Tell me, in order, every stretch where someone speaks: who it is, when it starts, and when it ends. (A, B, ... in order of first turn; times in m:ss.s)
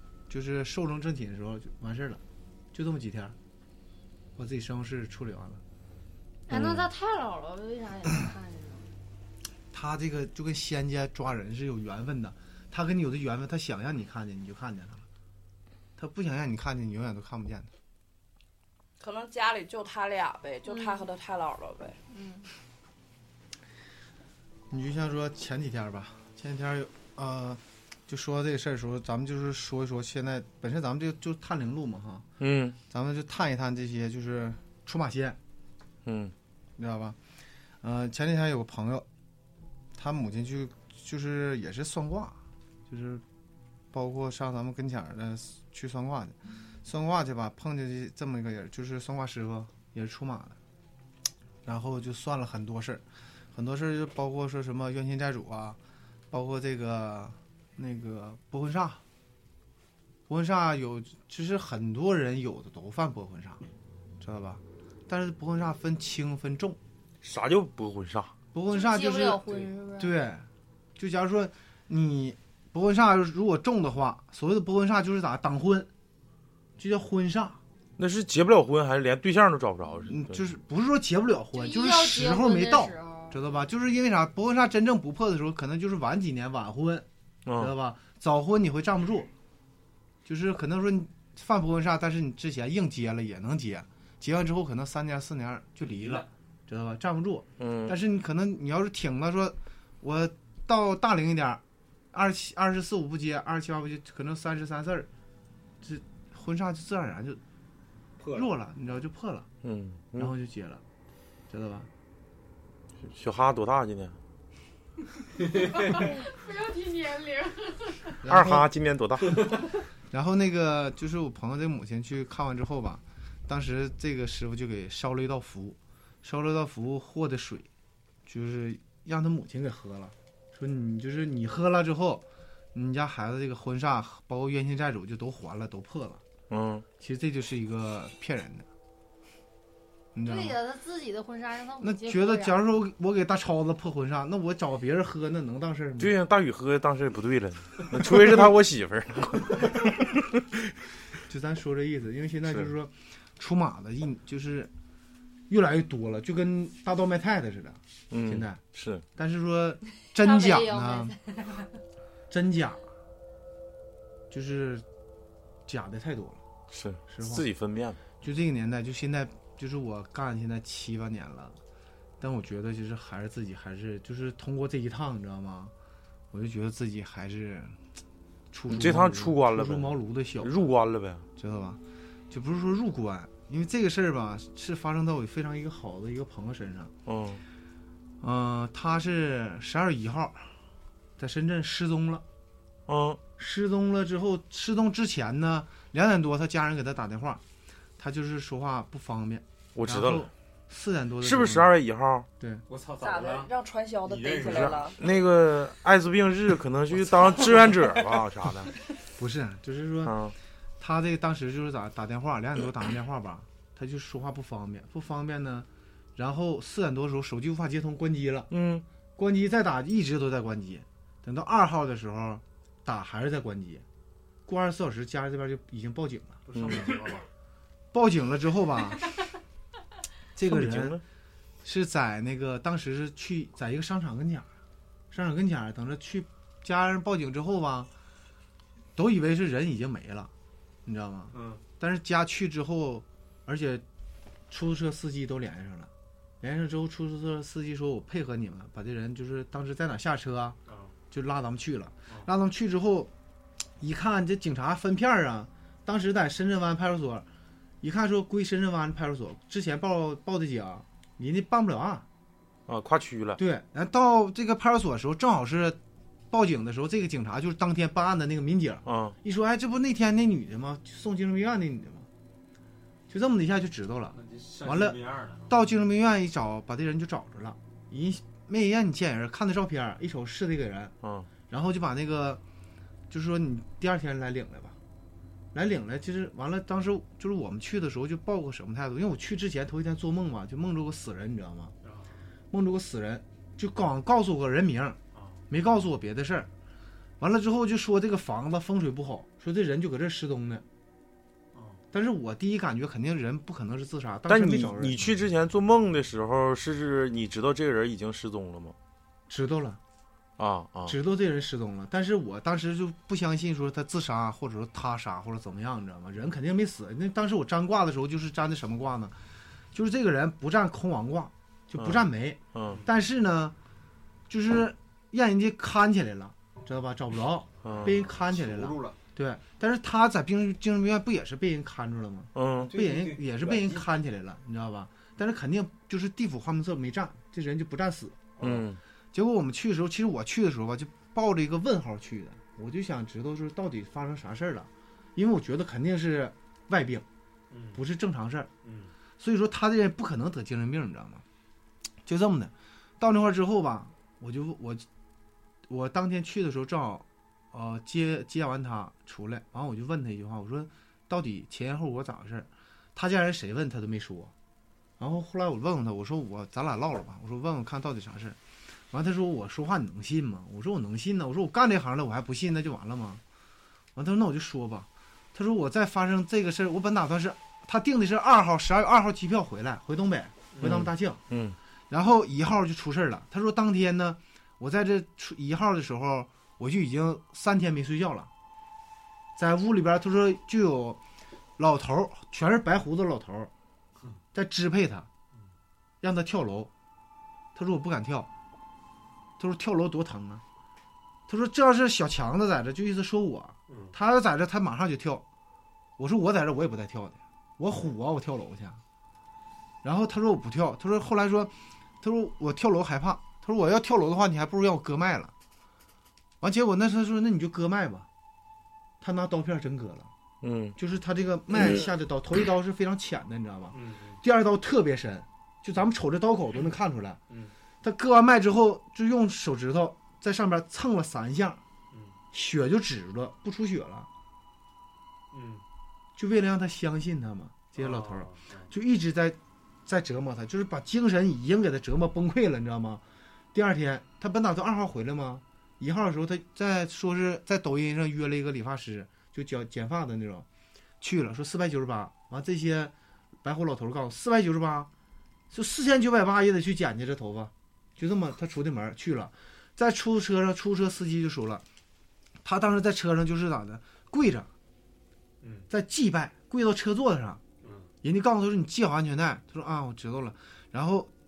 0:00.3-0:02.2 A
0:02.7-0:03.4 A
0:04.4-0:05.6 A
0:06.5-0:08.9 B
0:06.5-0:06.9 C
0:09.7-0:15.0 A
0:16.0-0:17.7 A
0:19.0-0:22.0 D
0:20.6-0:21.0 B
0:22.1-0:22.5 B
0:24.7-0:32.2 A
0:32.4-0:32.8 C
0:32.9-0:35.4 A
0:36.0-0:36.3 C
0:36.8-0:37.2 A
0:37.8-0:39.1 A
0:39.9-0:43.2 A
0:43.9-0:50.6 A
0:51.6-0:55.8 A
0:56.3-0:59.0 A
1:00.3-1:03.6 A
1:04.2-1:06.8 A
1:07.2-1:08.3 C
1:08.5-1:15.9 A
1:08.7-1:10.2 B
1:16.8-1:17.6 A
1:18.0-1:20.4 C
1:20.1-1:27.0 A
1:21.5-1:23.4 B
1:27.4-1:27.7 C
1:27.6-1:29.3 A
1:30.2-1:45.1 A
1:35.8-1:36.3 E
1:37.6-1:37.9 C
1:45.8-1:47.4 A
1:48.2-1:48.6 E
1:48.3-1:49.5 A
1:49.6-1:50.3 C
1:50.2-1:50.8 A
1:51.5-1:51.9 A
1:53.0-1:54.2 C
1:55.5-1:58.2 B
1:58.2-1:58.7 A
1:58.3-1:59.5 C
2:00.1-2:07.7 A
2:08.2-2:16.2 A
2:16.5-2:16.8 C
2:17.0-2:18.7 A
2:20.1-2:20.6 A
2:20.2-2:22.6 B
2:21.8-2:26.1 A
2:26.0-2:30.2 C
2:28.0-2:28.5 A
2:31.2-2:34.7 A
2:35.5-2:38.6 A
2:38.1-2:39.0 C
2:39.2-2:41.2 A
2:40.2-2:41.7 B
2:42.3-2:42.8 A
2:44.3-2:44.8 A
2:45.7-2:46.4 A
2:46.7-2:48.0 C
2:47.1-2:47.5 A
2:48.2-2:51.6 A
2:52.2-2:55.7 A
2:56.3-2:57.8 A
2:58.5-3:00.6 A
2:58.7-3:01.2 C
3:01.4-3:06.9 A
3:07.0-3:07.4 C
3:08.2-3:10.5 A
3:11.2-3:12.2 A
3:12.9-3:13.2 C
3:13.4-3:17.4 A
3:18.0-3:21.7 A
3:19.8-3:20.3 C
3:21.2-3:22.3 C
3:22.4-3:22.6 A
3:22.7-3:23.5 E
3:23.0-3:25.0 D
3:24.0-3:25.0 E
3:24.4-3:28.7 C
3:29.2-3:30.2 A
3:30.0-3:30.3 C
3:30.8-3:38.5 A
3:38.5-3:38.8 C
3:39.2-3:43.8 A
3:44.4-3:46.4 A
3:46.4-3:47.2 E
3:47.9-3:49.0 A
3:50.3-3:51.0 A
3:50.4-3:51.0 C
3:51.6-3:54.5 A
3:55.1-3:57.9 A
3:59.0-4:00.3 A
4:00.8-4:03.8 A
4:01.3-4:01.6 E
4:04.5-4:10.6 A
4:10.7-4:10.9 E
4:11.1-4:13.1 A
4:13.8-4:17.2 A
4:17.8-4:22.0 A
4:22.7-4:23.4 C
4:23.4-4:25.8 A
4:26.3-4:32.1 A
4:28.8-4:29.1 C
4:33.1-4:40.9 A
4:34.1-4:35.7 E
4:41.0-4:41.3 C
4:41.5-4:42.4 A
4:43.1-4:44.8 A
4:45.5-4:51.7 A
4:52.5-4:56.5 A
4:57.2-5:00.6 A
5:01.9-5:05.0 A
5:04.3-5:08.8 C
5:09.3-5:09.8 A
5:10.4-5:10.9 C
5:10.8-5:19.2 A
5:19.7-5:23.5 A
5:21.8-5:22.8 C
5:24.3-5:38.3 A
5:27.6-5:27.9 C
5:27.8-5:29.0 E
5:32.3-5:32.7 C
5:32.6-5:33.8 E
5:38.4-5:38.6 E
5:38.4-5:38.8 C
5:39.1-5:47.0 A
5:47.5-5:47.8 E
5:47.7-5:48.5 A
5:48.6-5:48.9 E
5:49.2-5:51.2 A
5:52.0-5:54.8 A
5:55.7-6:04.3 A
6:05.0-6:08.4 A
6:08.9-6:13.2 A
6:13.9-6:21.2 A
6:20.6-6:21.6 C
6:21.9-6:28.3 A
6:29.4-6:31.0 A
6:31.6-6:33.5 A
6:34.3-6:35.1 A
6:36.0-6:36.7 A
6:37.5-6:38.3 A
6:39.4-6:40.4 A
6:41.3-6:45.2 A
6:43.7-6:43.9 E
6:46.0-6:48.8 A
6:49.8-6:55.3 A
6:56.4-6:58.1 A
6:59.0-7:00.1 A
7:00.4-7:00.7 C
7:00.8-7:07.2 A
7:03.7-7:04.2 E
7:07.8-7:11.6 A
7:11.9-7:12.2 E
7:12.3-7:14.1 A
7:15.3-7:15.6 E
7:16.2-7:23.0 A
7:17.7-7:18.7 E
7:23.5-7:30.4 A
7:31.0-7:32.9 A
7:33.4-7:34.9 A
7:35.5-7:41.6 A
7:42.4-7:44.5 A
7:45.4-7:45.7 E
7:45.7-7:47.4 A
7:47.6-7:47.9 E
7:48.0-7:51.1 A